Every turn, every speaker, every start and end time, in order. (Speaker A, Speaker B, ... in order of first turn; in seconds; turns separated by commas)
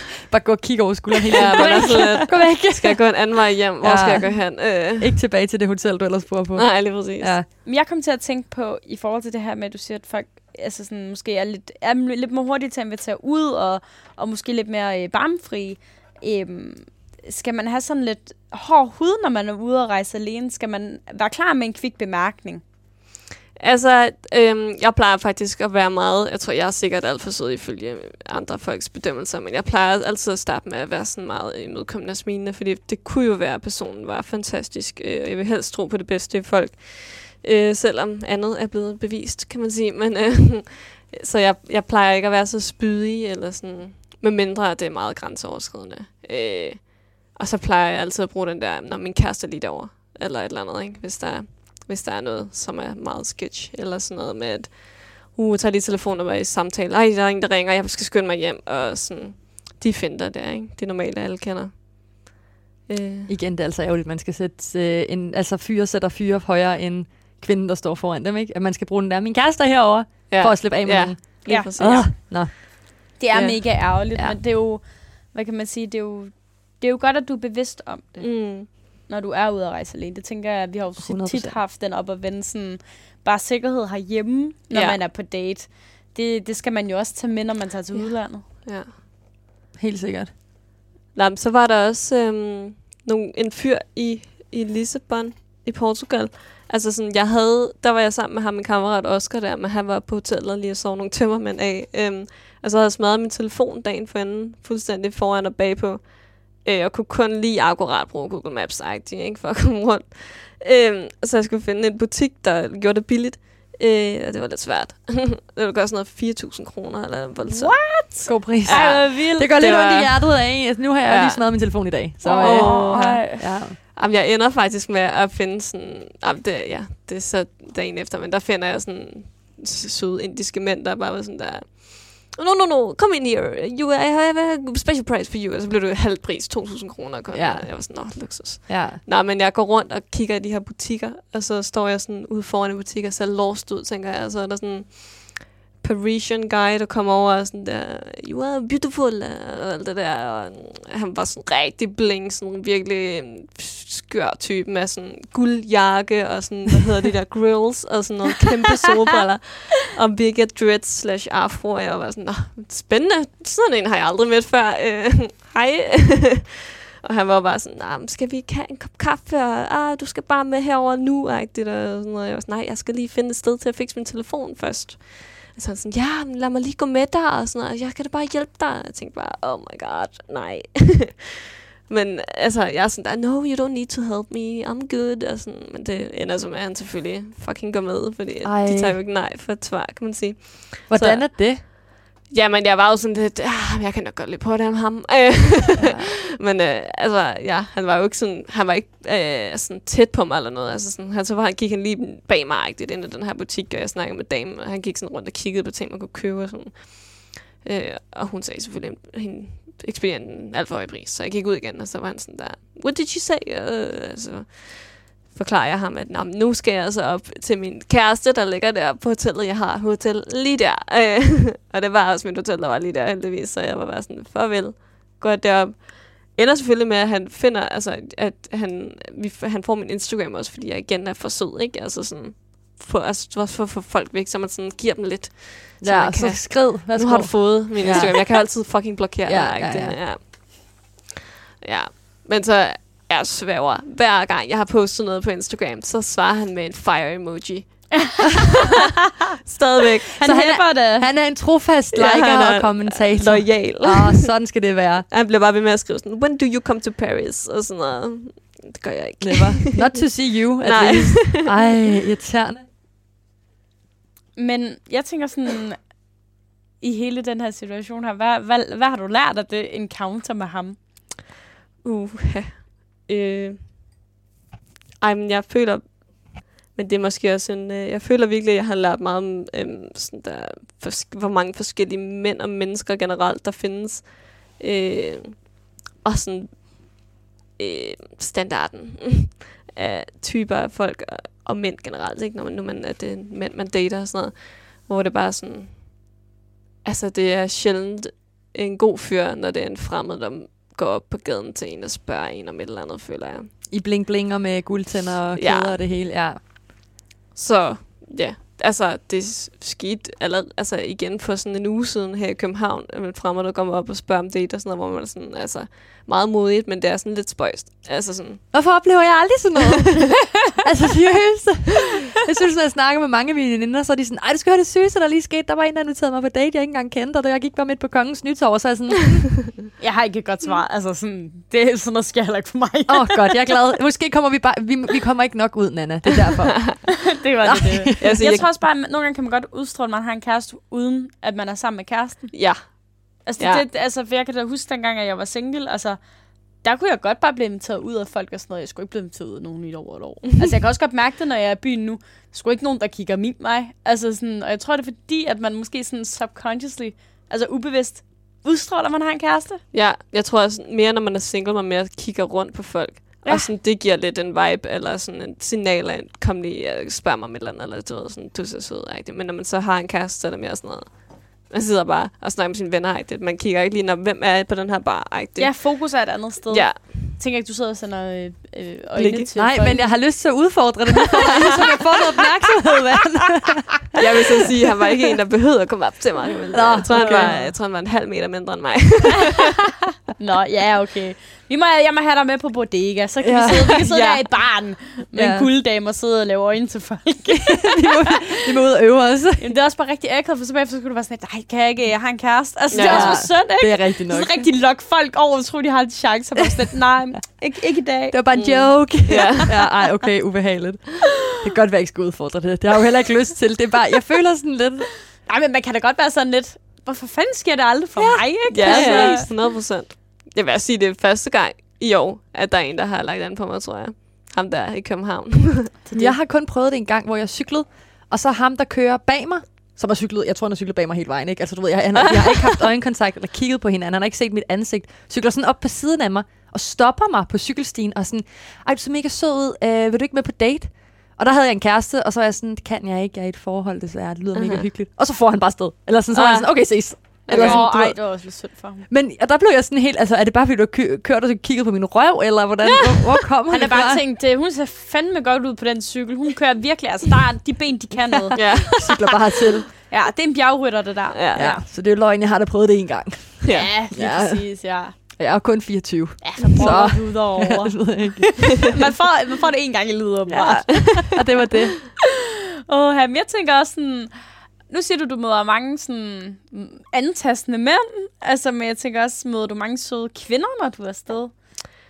Speaker A: 0.3-7.5, Speaker B: 1.3-5.2, Speaker C: 1.5-2.1, Speaker B: 6.5-7.3, Speaker C: 7.6-22.6, Speaker B: 23.6-62.3, Speaker B: 62.9-63.3, Speaker A: 63.3-72.5, Speaker B: 70.3-72.6, Speaker C: 71.5-72.2, Speaker C: 73.2-88.5, Speaker B: 73.3-73.6, Speaker B: 78.2-78.7, Speaker A: 81.0-81.6, Speaker B: 84.7-85.0, Speaker B: 87.9-89.0, Speaker A: 89.7-90.3, Speaker B: 91.1-181.3, Speaker C: 117.5-119.6, Speaker A: 118.2-123.8, Speaker C: 122.2-123.5, Speaker A: 137.3-139.0, Speaker B: 181.8-191.8, Speaker A: 188.4-189.0, Speaker A: 190.9-191.6, Speaker B: 192.3-241.0, Speaker A: 195.8-196.0, Speaker A: 235.8-240.0, Speaker C: 237.8-238.1, Speaker B: 241.6-248.3, Speaker B: 249.4-250.1, Speaker C: 250.2-251.1, Speaker A: 250.2-255.1, Speaker B: 251.9-254.4, Speaker B: 255.1-261.5, Speaker A: 259.2-262.6, Speaker C: 264.4-270.9, Speaker B: 271.8-273.7, Speaker B: 275.0-287.1, Speaker B: 287.6-296.0, Speaker B: 296.8-303.5, Speaker A: 303.7-306.4, Speaker B: 305.4-305.8, Speaker B: 307.3-318.7, Speaker A: 318.5-329.5, Speaker C: 329.8-333.6, Speaker A: 332.9-338.4, Speaker C: 337.1-342.7, Speaker B: 338.0-338.5, Speaker B: 342.3-343.6, Speaker C: 343.2-359.6, Speaker B: 359.7-377.0, Speaker C: 363.2-363.5, Speaker C: 375.4-380.5, Speaker B: 378.9-379.5, Speaker A: 379.4-383.7, Speaker C: 381.3-381.8, Speaker B: 383.9-389.6, Speaker A: 386.5-387.4, Speaker C: 386.8-387.6, Speaker C: 390.2-398.1, Speaker A: 393.2-393.6, Speaker B: 393.7-394.8, Speaker A: 395.1-395.5, Speaker A: 397.6-399.5, Speaker C: 399.4-408.5, Speaker B: 402.7-403.3, Speaker A: 402.8-404.4, Speaker A: 408.1-414.9, Speaker B: 408.3-409.5, Speaker C: 409.2-409.7, Speaker C: 415.2-419.3, Speaker A: 418.0-419.3, Speaker B: 418.5-425.7, Speaker C: 425.9-426.2, Speaker A: 425.9-454.0, Speaker B: 432.1-432.6, Speaker B: 444.3-444.7, Speaker B: 446.1-447.7, Speaker C: 447.3-448.9, Speaker C: 453.5-459.0, Speaker B: 458.3-459.1, Speaker A: 458.7-459.7, Speaker C: 459.7-461.6, Speaker B: 461.1-461.5, Speaker A: 461.3-468.4, Speaker B: 463.4-463.7, Speaker C: 463.5-465.2, Speaker C: 466.2-471.4, Speaker B: 466.4-467.0, Speaker B: 470.3-471.1, Speaker A: 471.1-471.8, Speaker C: 472.7-481.4